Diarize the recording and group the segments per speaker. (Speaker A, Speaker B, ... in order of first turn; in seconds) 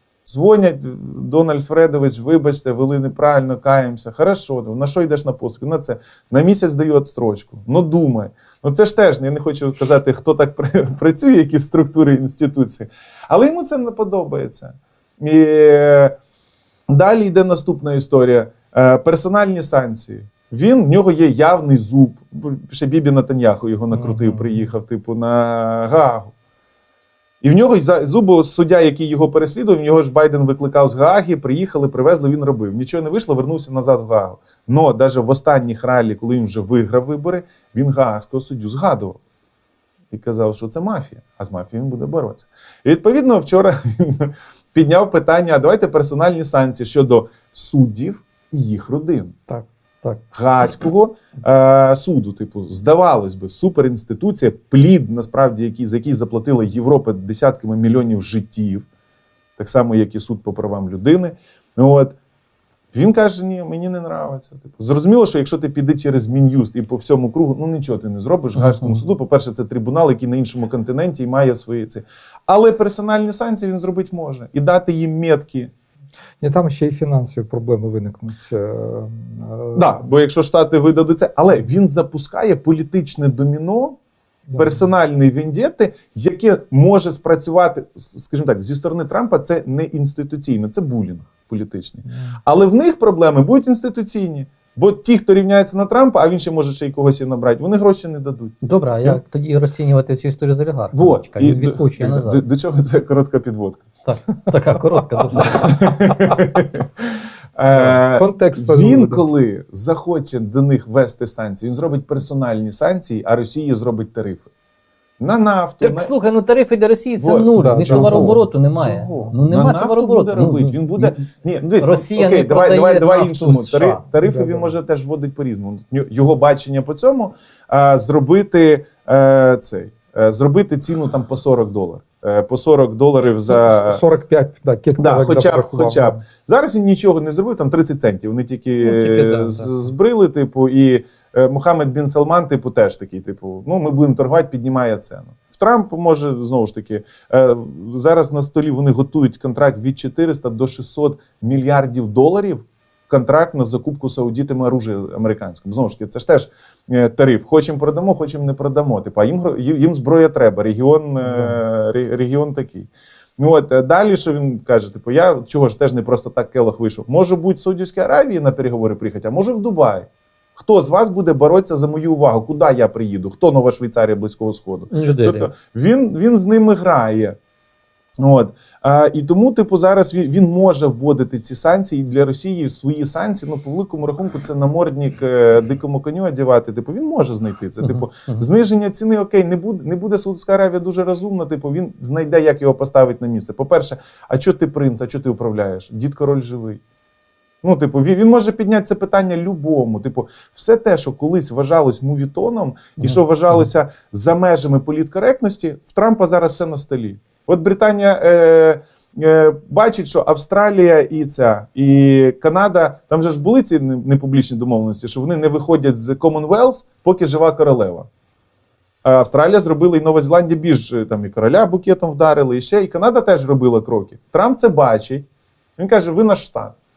Speaker A: 0.3-16.1, 16.9-26.3, 27.4-39.2, 40.1-49.4, 50.3-58.9, 59.6-62.2, 62.9-75.7, 79.8-84.0, 84.6-99.2, 100.9-103.9, 105.3-106.9, 107.6-114.5, 115.2-116.1, 117.2-134.0, 135.0-177.4, 178.2-196.8, 197.6-218.1, 219.1-226.8
Speaker B: 24.0-24.6, 76.4-79.9, 84.5-84.8, 92.1-92.4, 107.8-109.2, 117.6-118.5, 119.1-119.4, 124.2-124.7, 133.5-136.2, 161.3-161.5
Speaker C: 49.5-50.2, 68.6-69.0, 98.6-102.4, 104.0-105.9, 115.8-121.1, 121.8-124.0, 138.8-139.9, 174.9-175.5, 187.8-188.5, 203.0-203.7